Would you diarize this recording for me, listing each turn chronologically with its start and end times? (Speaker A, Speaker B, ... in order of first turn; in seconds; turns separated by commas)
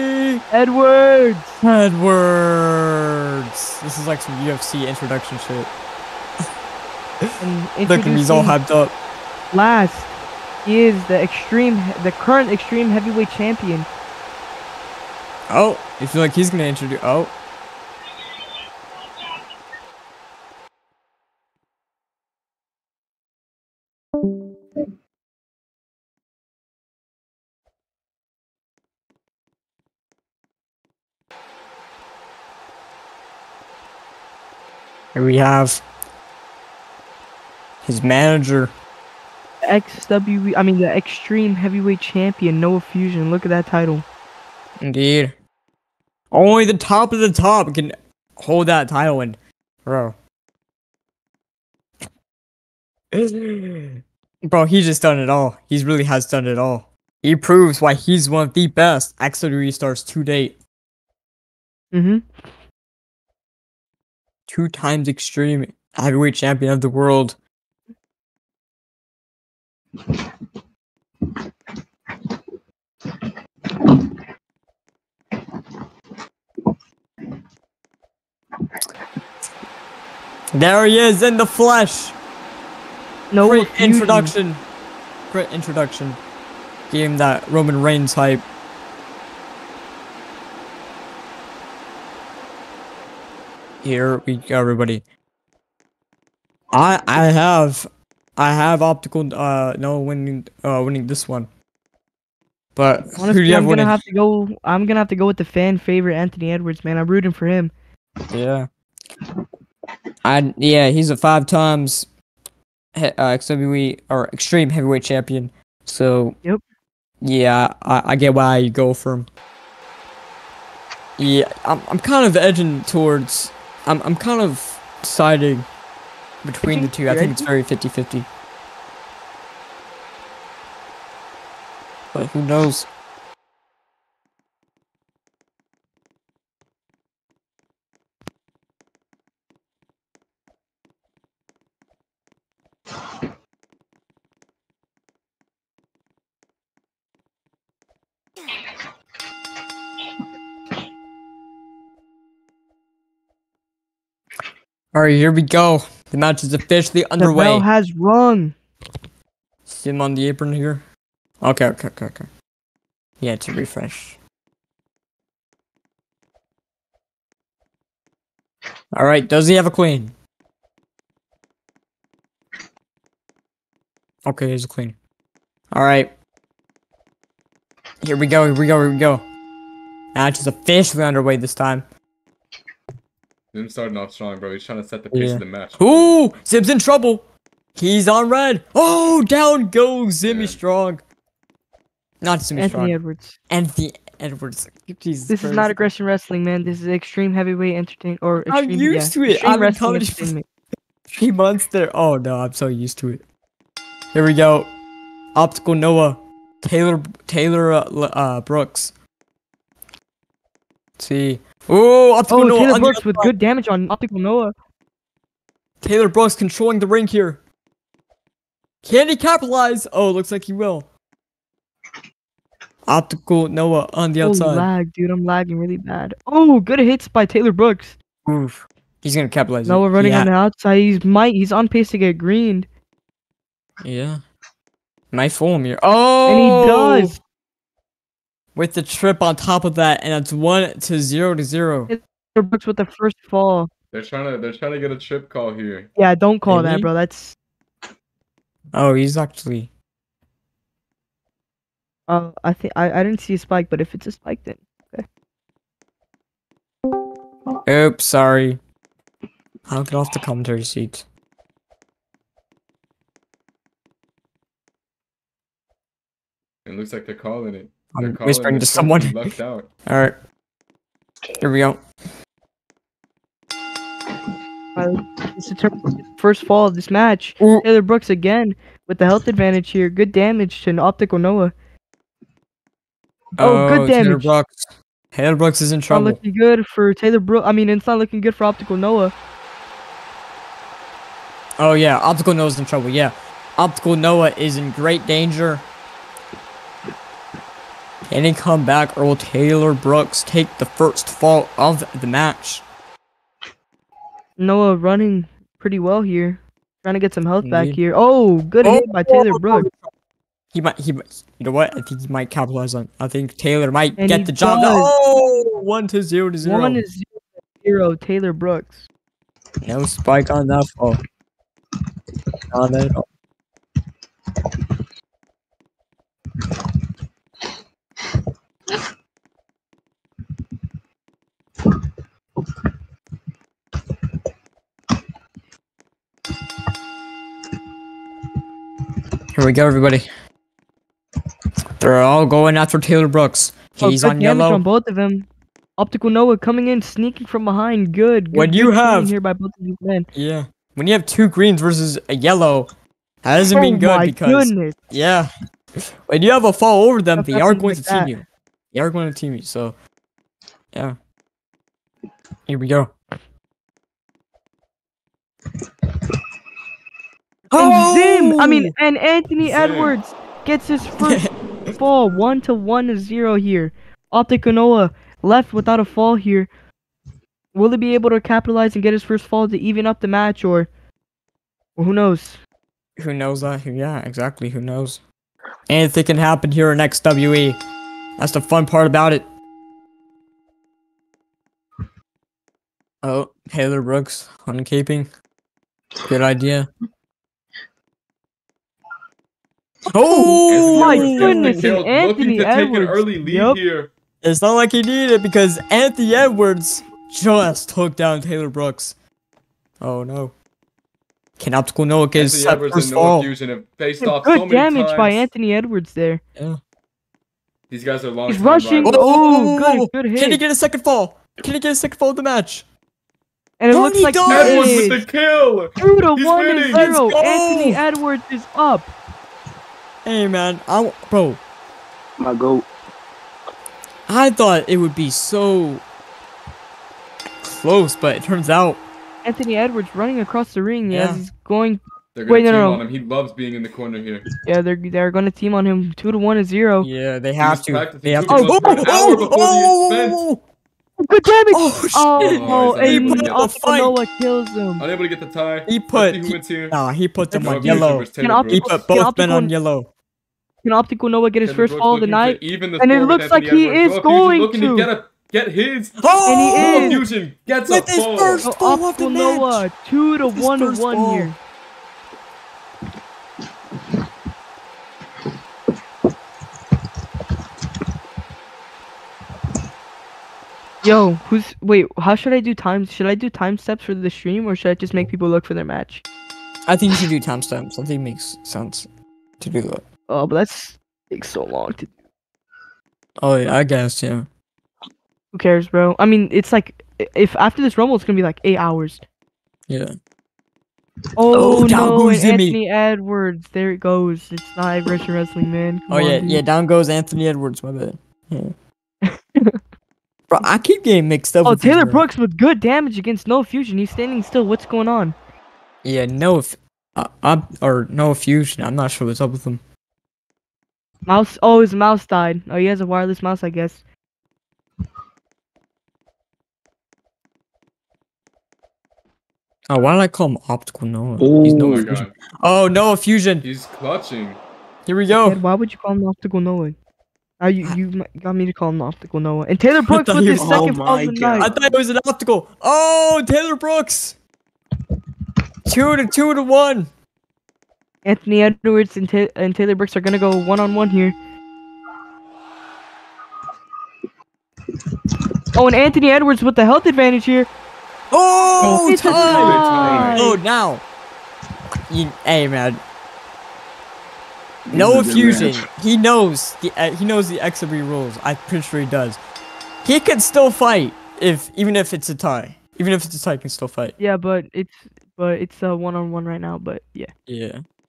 Speaker A: 0.5-1.6, Speaker B: 1.6-5.7, Speaker A: 7.4-8.6, Speaker B: 7.9-9.0, Speaker A: 9.5-10.1, Speaker A: 10.6-13.9, Speaker B: 15.5-17.4, Speaker B: 35.1-35.9, Speaker B: 37.8-38.8, Speaker A: 39.7-44.0, Speaker B: 44.8-45.4, Speaker B: 46.3-50.2, Speaker B: 53.1-60.6, Speaker A: 61.9-62.3, Speaker B: 64.5-67.4, Speaker B: 80.5-82.2, Speaker A: 83.3-84.3, Speaker B: 83.4-84.6, Speaker B: 85.3-86.2, Speaker B: 86.9-88.5, Speaker B: 93.8-95.0, Speaker B: 96.7-101.5, Speaker B: 102.8-104.0, Speaker A: 103.2-107.7, Speaker B: 108.3-108.7, Speaker B: 110.2-112.1, Speaker B: 113.0-116.4, Speaker B: 117.2-119.3, Speaker B: 121.2-125.7, Speaker B: 126.4-128.3, Speaker A: 126.6-127.5, Speaker B: 132.1-132.9, Speaker B: 154.9-157.7, Speaker A: 157.2-158.6, Speaker B: 159.7-160.8, Speaker B: 161.4-162.3, Speaker B: 163.2-164.2, Speaker B: 168.9-170.2, Speaker B: 174.2-175.0, Speaker B: 175.7-176.1, Speaker B: 178.0-179.2, Speaker B: 180.1-181.9, Speaker C: 183.5-186.2, Speaker B: 185.1-187.2, Speaker B: 187.8-191.0, Speaker C: 190.3-190.6, Speaker B: 192.2-193.0, Speaker A: 192.6-193.4, Speaker B: 193.5-195.8, Speaker A: 195.3-200.4, Speaker B: 198.5-200.3, Speaker B: 201.1-203.2, Speaker B: 204.1-204.7, Speaker B: 205.3-208.9, Speaker B: 211.0-213.3, Speaker A: 212.3-214.5, Speaker B: 215.8-217.4, Speaker B: 218.8-220.9, Speaker B: 222.9-224.7, Speaker A: 224.2-228.0, Speaker B: 228.3-230.3, Speaker A: 229.7-232.7, Speaker B: 233.8-234.2, Speaker B: 235.1-237.2, Speaker A: 236.3-237.2, Speaker B: 238.6-241.9, Speaker A: 241.9-243.7, Speaker C: 243.9-245.9, Speaker A: 246.0-247.4, Speaker B: 246.5-246.9, Speaker B: 248.7-249.7, Speaker A: 252.1-255.1, Speaker B: 257.6-258.6, Speaker B: 259.7-261.1, Speaker C: 266.7-269.7, Speaker B: 267.9-269.3, Speaker B: 269.9-270.2, Speaker B: 271.4-271.8, Speaker A: 274.8-281.5, Speaker B: 277.4-277.7, Speaker B: 283.4-286.2, Speaker A: 283.4-284.3, Speaker A: 285.9-289.1, Speaker B: 291.6-295.7, Speaker B: 298.1-302.6, Speaker A: 304.4-309.7, Speaker B: 307.4-307.8, Speaker B: 308.6-309.9, Speaker B: 310.5-316.8, Speaker A: 314.0-314.9, Speaker A: 316.4-318.9, Speaker B: 319.6-321.0, Speaker B: 322.5-323.1, Speaker B: 339.3-340.1, Speaker B: 341.8-344.6, Speaker A: 343.8-345.3, Speaker A: 345.8-350.1, Speaker B: 348.3-349.1, Speaker B: 350.1-352.7, Speaker B: 353.2-359.8, Speaker A: 353.5-354.8, Speaker A: 357.2-358.1, Speaker B: 360.7-361.0, Speaker B: 362.5-362.9, Speaker B: 367.5-368.7, Speaker A: 367.6-371.2, Speaker C: 369.4-369.9, Speaker B: 371.0-371.3, Speaker A: 371.8-376.5, Speaker A: 377.5-380.7, Speaker A: 381.8-382.4, Speaker B: 383.0-385.0, Speaker B: 385.7-387.6, Speaker B: 388.2-389.3, Speaker B: 393.0-395.1, Speaker B: 396.1-396.7, Speaker B: 399.9-401.7, Speaker A: 400.0-403.6, Speaker C: 400.5-403.9, Speaker B: 404.2-409.0, Speaker B: 409.8-410.4, Speaker B: 411.4-413.3, Speaker C: 412.1-415.3, Speaker A: 414.0-416.2, Speaker B: 416.4-416.6, Speaker C: 417.7-419.0, Speaker A: 418.3-420.4, Speaker B: 418.8-422.7, Speaker A: 423.6-425.1, Speaker B: 423.7-424.9, Speaker C: 424.3-426.9, Speaker A: 425.8-428.9, Speaker B: 426.7-427.8, Speaker B: 430.1-431.4, Speaker D: 432.2-432.7, Speaker B: 434.1-435.9, Speaker B: 437.4-438.8, Speaker A: 439.2-442.8, Speaker B: 440.9-441.3, Speaker C: 442.1-444.2, Speaker A: 444.4-446.9, Speaker B: 446.8-450.4, Speaker C: 447.4-450.2, Speaker A: 448.3-448.9, Speaker A: 451.0-454.9, Speaker B: 451.5-454.0, Speaker C: 452.2-453.5, Speaker C: 454.8-456.8, Speaker B: 455.7-459.9, Speaker A: 457.3-459.5, Speaker C: 457.3-458.9, Speaker A: 460.6-464.9, Speaker C: 461.4-468.5, Speaker B: 466.0-467.1, Speaker A: 466.3-467.0, Speaker B: 467.6-469.7, Speaker A: 468.4-471.4, Speaker B: 470.3-471.3, Speaker A: 480.8-486.0, Speaker B: 486.7-488.9, Speaker B: 489.4-489.9, Speaker A: 490.1-491.9, Speaker B: 493.2-494.3, Speaker A: 495.3-499.0, Speaker B: 499.7-499.9, Speaker A: 501.2-506.4, Speaker B: 501.3-502.6, Speaker B: 505.9-508.5, Speaker A: 509.0-509.6, Speaker B: 510.3-512.0, Speaker A: 511.4-515.1, Speaker B: 515.8-519.6, Speaker A: 521.1-523.8, Speaker B: 529.7-533.5, Speaker D: 531.2-532.0, Speaker C: 531.6-532.1, Speaker C: 533.4-534.4, Speaker B: 534.9-535.4, Speaker A: 535.1-536.8, Speaker A: 537.4-541.5, Speaker B: 539.8-540.8, Speaker D: 540.4-541.5, Speaker B: 541.4-544.2, Speaker B: 545.7-546.9, Speaker A: 548.0-551.1, Speaker A: 555.5-557.5, Speaker B: 558.1-560.8, Speaker D: 558.6-560.1, Speaker A: 558.6-560.4, Speaker C: 559.1-560.2, Speaker B: 561.9-562.8, Speaker D: 564.7-565.7, Speaker B: 564.7-569.2, Speaker B: 569.8-574.0, Speaker A: 574.0-577.1, Speaker B: 577.3-577.6